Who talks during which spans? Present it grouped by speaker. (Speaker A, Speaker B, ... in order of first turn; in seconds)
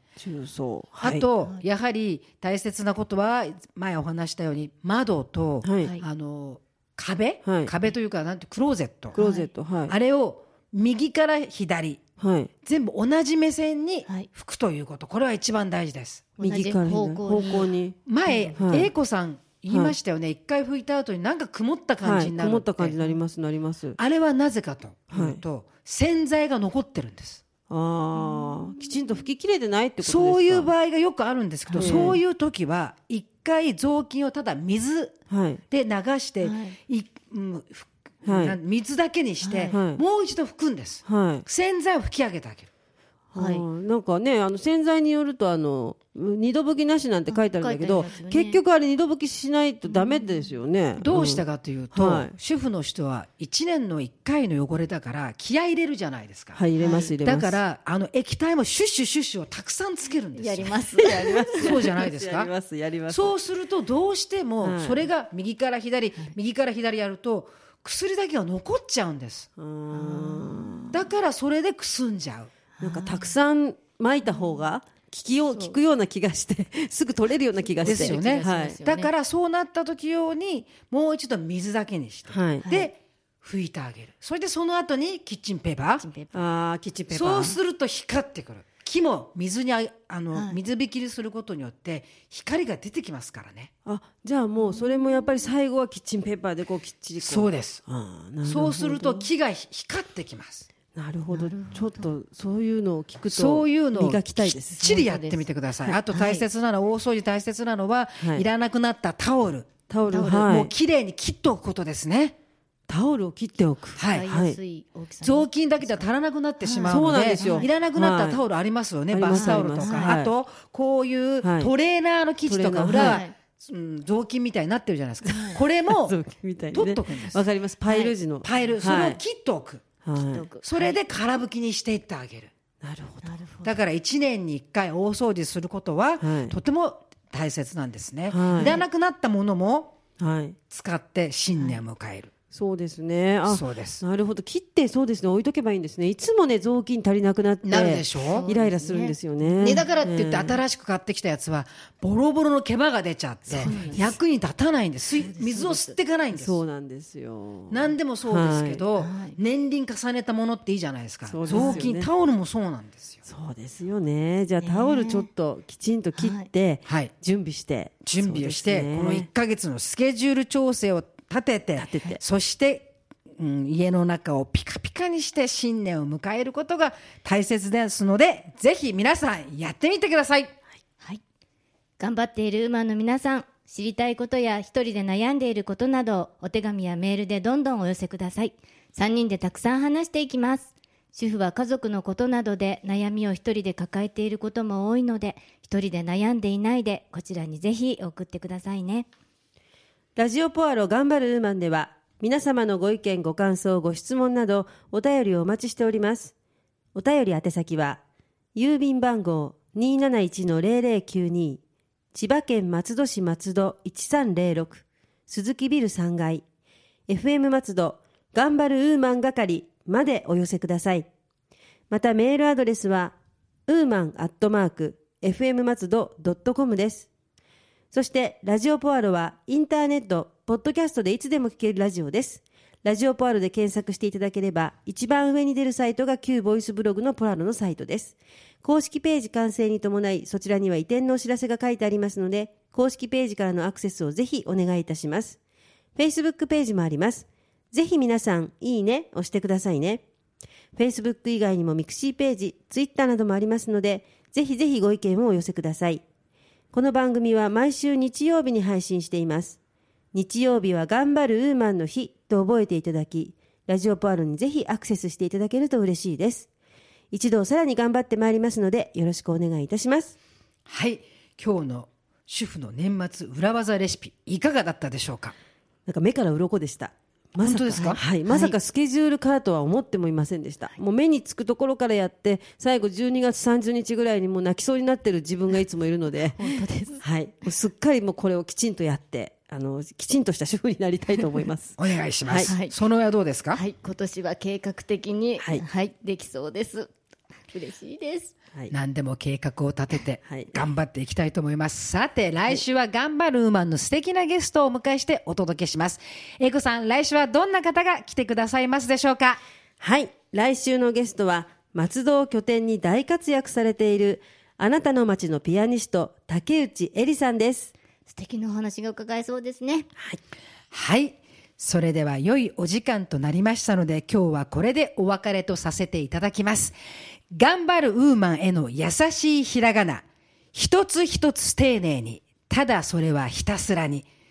Speaker A: 0.2-1.2, 5.6-5.9, 7.5-7.7, 9.2-9.9, 12.2-12.5, 16.4-18.0, 18.6-18.9, 19.7-19.9, 22.0-24.0, 25.1-25.4, 27.7-30.7, 31.8-32.2, 35.3-35.6, 38.2-38.6, 39.7-40.0, 41.1-41.5, 43.3-52.3, 56.5-57.6, 61.0-63.4, 64.6-65.1, 69.6-70.9, 72.8-78.8, 82.3-82.7, 86.3-87.6, 93.8-99.3, 100.9-104.9, 108.2-108.5, 109.9-110.7, 112.9-114.6, 116.8-118.4, 119.1-120.3, 121.4-121.7, 122.5-123.2, 125.9-129.2, 130.1-130.5, 132.8-133.3, 136.2-136.6, 138.3-138.8, 140.2-140.6, 142.5-150.6, 153.5-153.9, 156.3-158.8, 161.3-162.1, 163.3-169.3, 171.8-172.2, 200.2-206.3, 206.9-208.0, 208.6-211.6, 212.1-216.4, 217.1-221.1, 221.9-223.1, 223.7-227.1, 227.9-245.4, 246.0-250.0, 250.8-256.0, 256.7-259.6, 260.1-266.5, 267.1-270.1, 275.9-292.5, 300.2-300.6, 309.8-317.7
Speaker B: 1.0-9.2, 9.9-12.0, 12.6-16.4, 18.1-23.1, 24.0-27.4, 30.0-35.2, 35.7-42.7, 51.0-56.6, 57.2-60.7, 61.5-62.5, 63.1-69.5, 70.9-72.5, 77.8-86.0, 87.1-93.7, 97.2-97.8, 98.5-100.7, 103.3-109.8, 110.3-112.4, 114.0-114.3, 115.2-126.2, 126.7-127.4, 128.4-129.8, 130.6-132.5, 133.7-140.0, 140.7-142.3, 143.5-144.0, 147.6-148.5, 149.6-156.6, 157.7-163.2, 168.1-180.5, 270.7-275.4, 277.4-278.0, 291.8-293.6, 298.7-309.4, 320.7-326.8, 327.3-334.1
Speaker C: 9.2-9.5, 16.4-17.7, 18.3-18.8, 28.1-28.8, 31.7-32.2, 36.4-36.8, 39.4-39.8, 43.4-43.6, 47.3-48.6, 49.9-50.5, 56.8-57.1, 60.4-61.8, 69.9-71.0, 72.8-73.3, 74.3-74.6, 77.8-79.1, 82.6-82.9, 86.0-86.3, 101.3-102.1, 104.8-105.5, 106.1-106.4, 110.1-110.5, 114.0-116.1, 116.6-117.7, 119.3-120.2, 123.0-123.3, 125.3-125.6, 127.9-128.1, 130.2-131.0, 133.2-133.7, 138.6-138.8, 148.2-149.9, 153.5-154.2, 155.2-156.0, 159.0-159.4, 161.5-161.9, 164.6-165.3, 166.2-166.5, 182.0-199.1, 278.3-278.6, 286.4-287.0, 292.4-292.7, 293.5-296.9, 297.5-298.3, 318.1-319.9